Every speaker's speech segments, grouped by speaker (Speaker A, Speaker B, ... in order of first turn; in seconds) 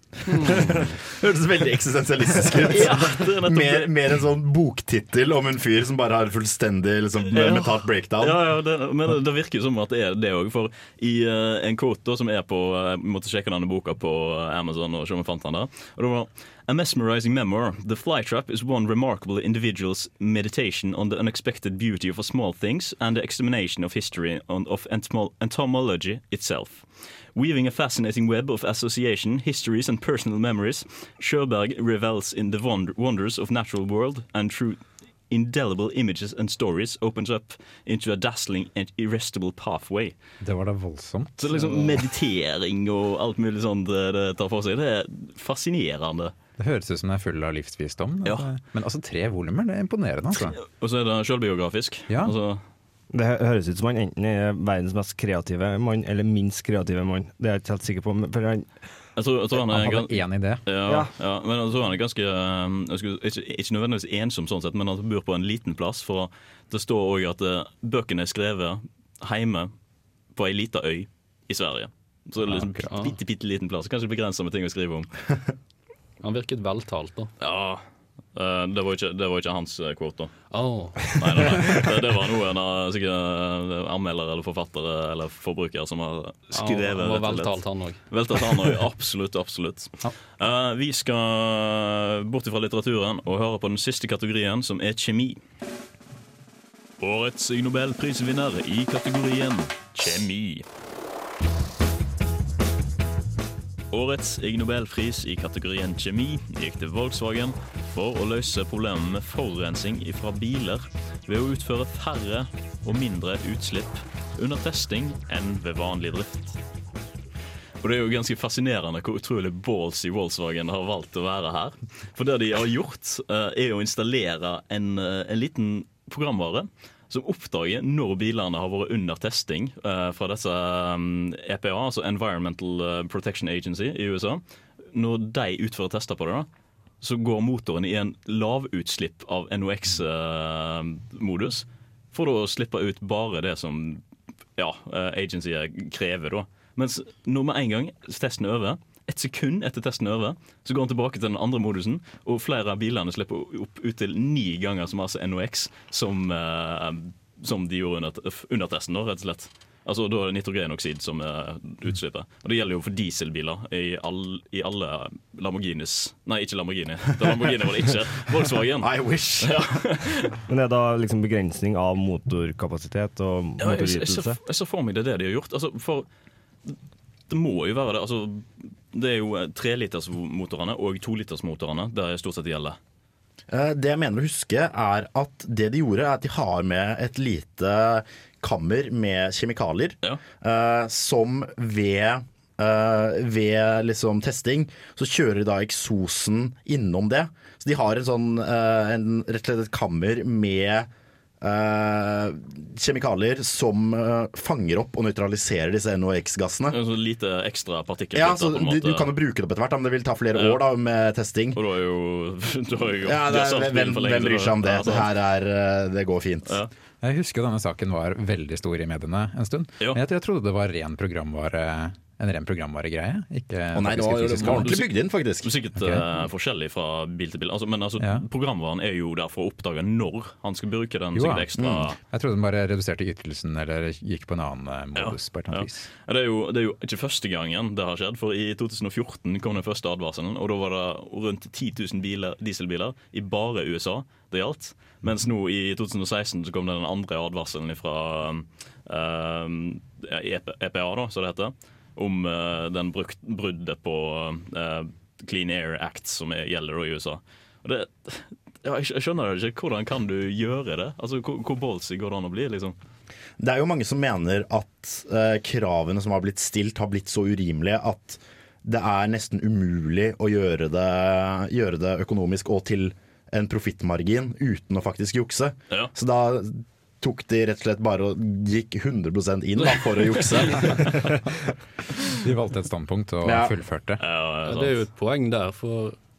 Speaker A: 0.3-1.0, 76.2-77.3, 80.5-81.3, 86.5-88.0, 284.5-286.0
Speaker B: 0.5-8.4, 168.8-169.8, 183.5-200.9, 201.4-206.8, 208.1-211.6, 213.0-216.7, 223.7-225.5, 231.6-231.9, 263.4-281.1, 283.2-283.5
Speaker C: 2.6-3.9, 7.3-40.1, 41.4-46.3, 50.3-52.6, 59.2-69.7, 70.3-75.2, 77.4-80.5, 81.1-95.4, 97.0-100.7, 103.9-116.6, 117.8-134.4, 134.9-136.5, 137.0-144.0, 144.6-170.3, 173.6-176.1, 177.3-182.8, 206.7-209.1, 210.3-210.6, 211.6-215.1, 224.4-232.0, 234.9-262.8, 279.6-280.9, 284.0-284.8
Speaker D: 40.4-42.0, 46.6-50.6, 52.1-52.4, 59.5-60.6, 72.4-72.9, 217.0-224.8, 225.8-226.1, 228.0-228.3, 231.1-235.8, 282.1-284.0
Speaker E: 53.1-58.7, 60.9-61.1, 170.5-174.4